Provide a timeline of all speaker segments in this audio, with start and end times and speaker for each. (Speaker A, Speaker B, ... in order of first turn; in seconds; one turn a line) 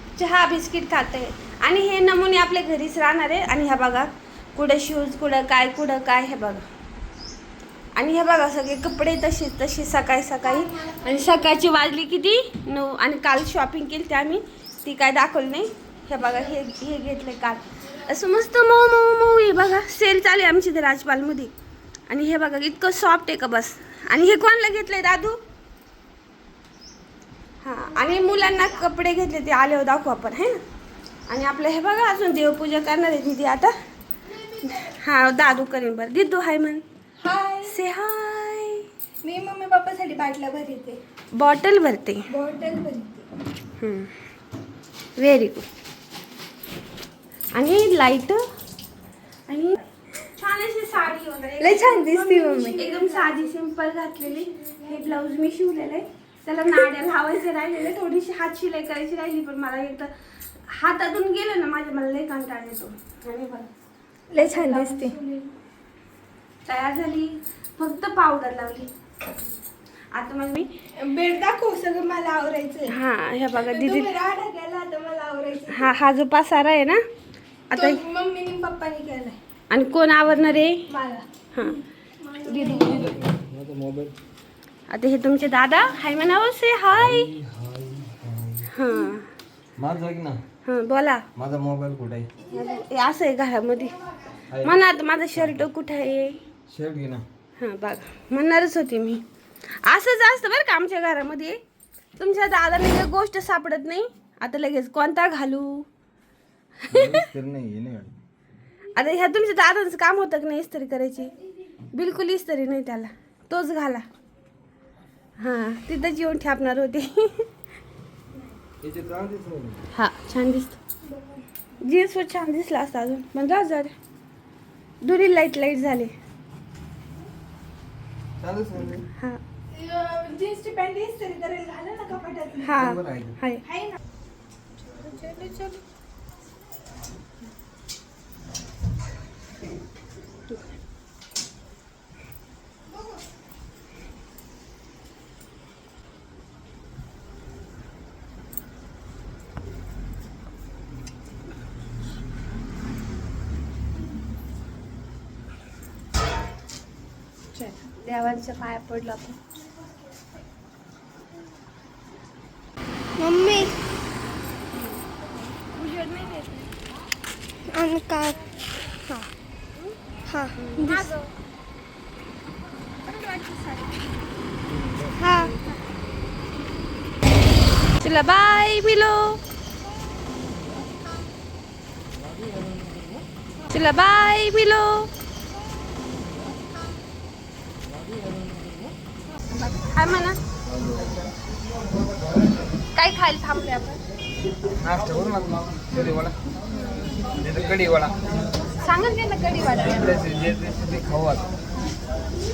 Speaker A: 0.1-6.6
Speaker A: 8.0-21.5
Speaker B: 10.4-11.4
Speaker A: 22.1-25.4
Speaker A: 27.6-30.6
Speaker B: 28.0-28.7
Speaker A: 31.3-33.8
Speaker B: 34.3-35.0
Speaker A: 34.7-36.8
Speaker B: 37.2-37.8
Speaker A: 37.6-38.9
Speaker B: 39.2-41.0
Speaker A: 41.3-42.3
Speaker B: 42.3-43.2
Speaker A: 43.8-44.1
Speaker A: 45.2-45.6
Speaker A: 47.5-48.4
Speaker A: 49.5-60.1
Speaker B: 51.6-53.4
Speaker A: 60.7-63.7
Speaker B: 64.3-65.2
Speaker A: 64.4-65.4
Speaker A: 66.7-68.9
Speaker A: 70.1-70.7
Speaker B: 71.0-72.9
Speaker A: 72.9-74.1
Speaker B: 73.5-75.9
Speaker A: 75.7-77.0
Speaker A: 77.7-78.0
Speaker B: 77.7-79.4
Speaker A: 79.7-80.8
Speaker B: 80.9-83.2
Speaker A: 81.5-81.8
Speaker A: 82.4-83.2
Speaker C: 82.9-84.1
Speaker A: 84.9-87.3
Speaker C: 86.9-88.7
Speaker A: 88.7-89.3
Speaker C: 89.8-90.4
Speaker A: 90.6-91.3
Speaker C: 91.3-92.3
Speaker A: 92.5-94.0
Speaker C: 94.5-94.8
Speaker A: 94.6-96.4
Speaker C: 95.3-95.7
Speaker C: 96.7-97.2
Speaker A: 97.6-101.6
Speaker A: 102.2-105.9
Speaker C: 106.9-108.2
Speaker A: 106.9-107.2
Speaker A: 108.9-111.3
Speaker A: 111.9-114.0
Speaker A: 115.4-117.5
Speaker C: 118.8-119.8
Speaker A: 119.9-120.8
Speaker B: 121.0-121.4
Speaker A: 121.8-123.9
Speaker A: 125.0-126.1
Speaker C: 128.4-129.0
Speaker A: 129.1-129.4
Speaker B: 129.7-132.8
Speaker A: 132.6-133.6
Speaker C: 132.8-133.4
Speaker B: 133.6-134.0
Speaker A: 135.1-135.8
Speaker A: 157.5-159.4
Speaker B: 163.2-163.7
Speaker A: 164.7-165.0
Speaker A: 165.6-166.7
Speaker B: 167.7-168.4
Speaker B: 170.3-171.1
Speaker A: 170.5-171.2
Speaker B: 173.1-173.8
Speaker C: 174.7-175.3
Speaker B: 175.2-175.5
Speaker A: 178.0-179.4
Speaker C: 182.2-183.2
Speaker A: 183.7-185.1
Speaker C: 187.9-188.9
Speaker A: 189.6-190.4
Speaker C: 190.7-191.1
Speaker A: 192.9-194.0
Speaker C: 194.8-196.4
Speaker C: 197.4-198.2
Speaker A: 198.8-200.1
Speaker C: 199.7-201.5